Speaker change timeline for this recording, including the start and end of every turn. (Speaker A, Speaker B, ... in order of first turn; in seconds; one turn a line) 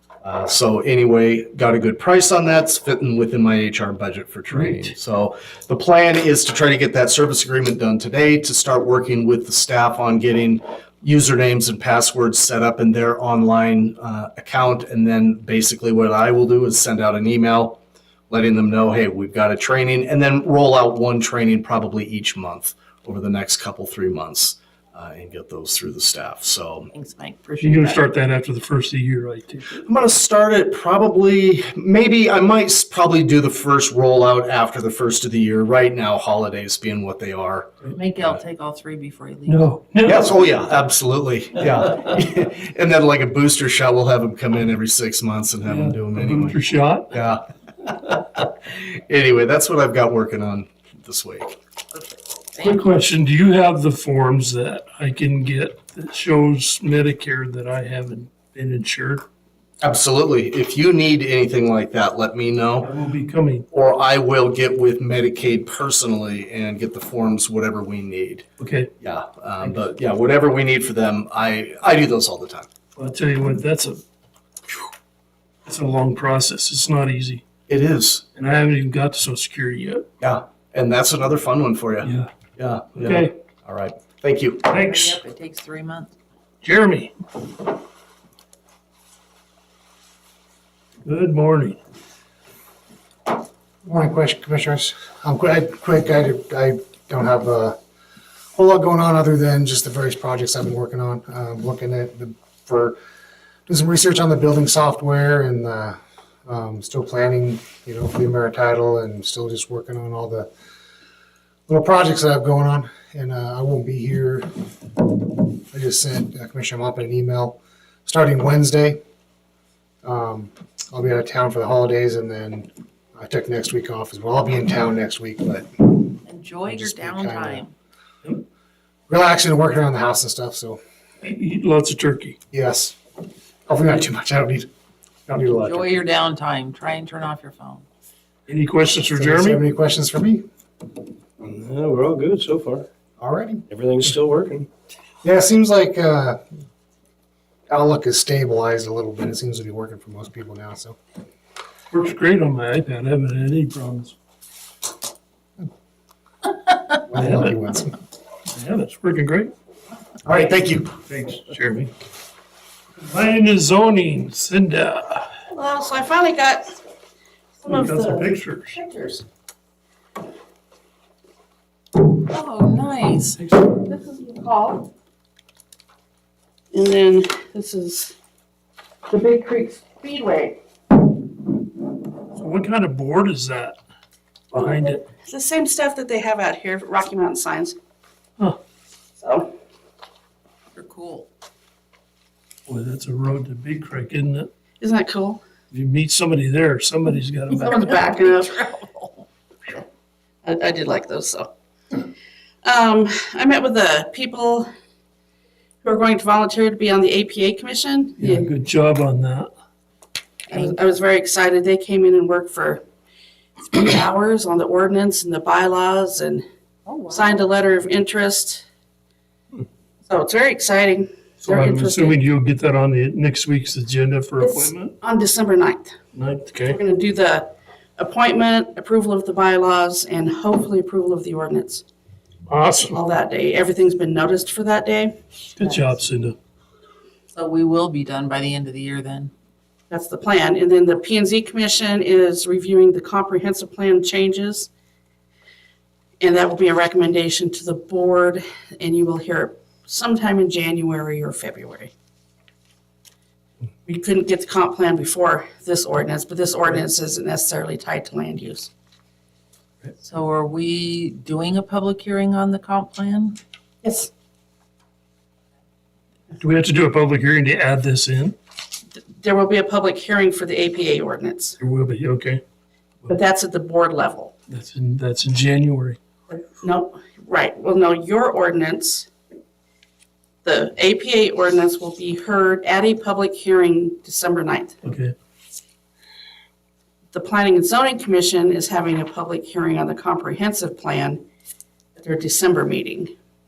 Speaker A: 0.2-17.8
Speaker B: 4.5-4.9
Speaker A: 18.3-26.9
Speaker C: 26.9-28.0
Speaker B: 27.6-29.9
Speaker A: 29.7-38.4
Speaker C: 38.0-39.7
Speaker B: 39.5-40.3
Speaker A: 40.0-51.5
Speaker B: 45.6-47.1
Speaker C: 51.9-52.9
Speaker B: 52.6-59.2
Speaker A: 59.8-62.9
Speaker B: 62.8-63.6
Speaker A: 63.7-68.5
Speaker B: 68.6-68.9
Speaker A: 69.0-72.7
Speaker B: 73.0-74.0
Speaker B: 75.7-77.4
Speaker A: 77.7-78.2
Speaker B: 78.4-80.1
Speaker A: 80.2-84.7
Speaker B: 82.0-82.3
Speaker B: 83.0-83.3
Speaker B: 84.7-85.2
Speaker C: 84.8-86.1
Speaker B: 86.6-87.1
Speaker B: 91.0-91.8
Speaker D: 93.8-97.8
Speaker D: 98.5-103.0
Speaker D: 103.7-110.5
Speaker D: 111.7-114.5
Speaker D: 115.3-119.0
Speaker D: 120.0-126.0
Speaker C: 126.2-127.7
Speaker D: 126.6-127.7
Speaker D: 129.1-130.8
Speaker B: 131.2-132.4
Speaker D: 132.5-133.0
Speaker D: 133.7-134.7
Speaker D: 135.3-136.0
Speaker C: 135.6-137.8
Speaker B: 138.5-139.6
Speaker D: 139.2-140.4
Speaker E: 141.4-142.8
Speaker D: 143.2-143.6
Speaker A: 143.7-144.1
Speaker E: 143.8-144.7
Speaker D: 145.2-146.4
Speaker D: 147.7-151.0
Speaker B: 151.9-154.2
Speaker D: 157.0-158.0
Speaker B: 157.2-157.6
Speaker B: 158.5-159.5
Speaker A: 160.2-160.9
Speaker B: 161.1-161.9
Speaker B: 163.0-165.3
Speaker F: 165.5-166.8
Speaker F: 167.6-169.2
Speaker B: 167.7-168.8
Speaker C: 172.1-173.4
Speaker B: 173.4-173.7
Speaker F: 173.7-174.9
Speaker F: 176.7-178.2
Speaker F: 179.1-180.6
Speaker B: 182.4-183.8
Speaker B: 184.5-185.0
Speaker F: 184.6-187.8
Speaker F: 189.2-189.5
Speaker C: 190.7-191.3
Speaker B: 192.7-194.5
Speaker F: 194.8-195.4
Speaker B: 195.7-197.7
Speaker C: 197.5-199.2
Speaker F: 197.6-198.6
Speaker F: 200.4-201.5
Speaker F: 202.7-204.7
Speaker F: 205.8-208.5
Speaker B: 208.2-209.5
Speaker F: 210.5-212.8
Speaker C: 210.5-210.8
Speaker F: 213.6-216.4
Speaker C: 216.9-217.5
Speaker F: 217.1-218.7
Speaker F: 220.1-222.2
Speaker B: 221.4-224.9
Speaker F: 224.4-226.0
Speaker B: 226.2-226.8
Speaker F: 226.7-231.8
Speaker B: 232.5-233.0
Speaker F: 232.9-235.9
Speaker B: 235.6-236.4
Speaker C: 237.3-239.3
Speaker F: 239.9-244.7
Speaker F: 246.2-251.9
Speaker F: 253.9-258.7
Speaker C: 260.0-263.4
Speaker F: 263.8-264.1
Speaker B: 266.4-268.4
Speaker F: 269.1-271.6
Speaker B: 271.6-272.4
Speaker F: 273.1-274.3
Speaker B: 274.5-276.0
Speaker F: 276.3-279.1
Speaker F: 280.4-284.8
Speaker B: 284.8-285.1
Speaker F: 287.1-291.2
Speaker F: 292.0-293.1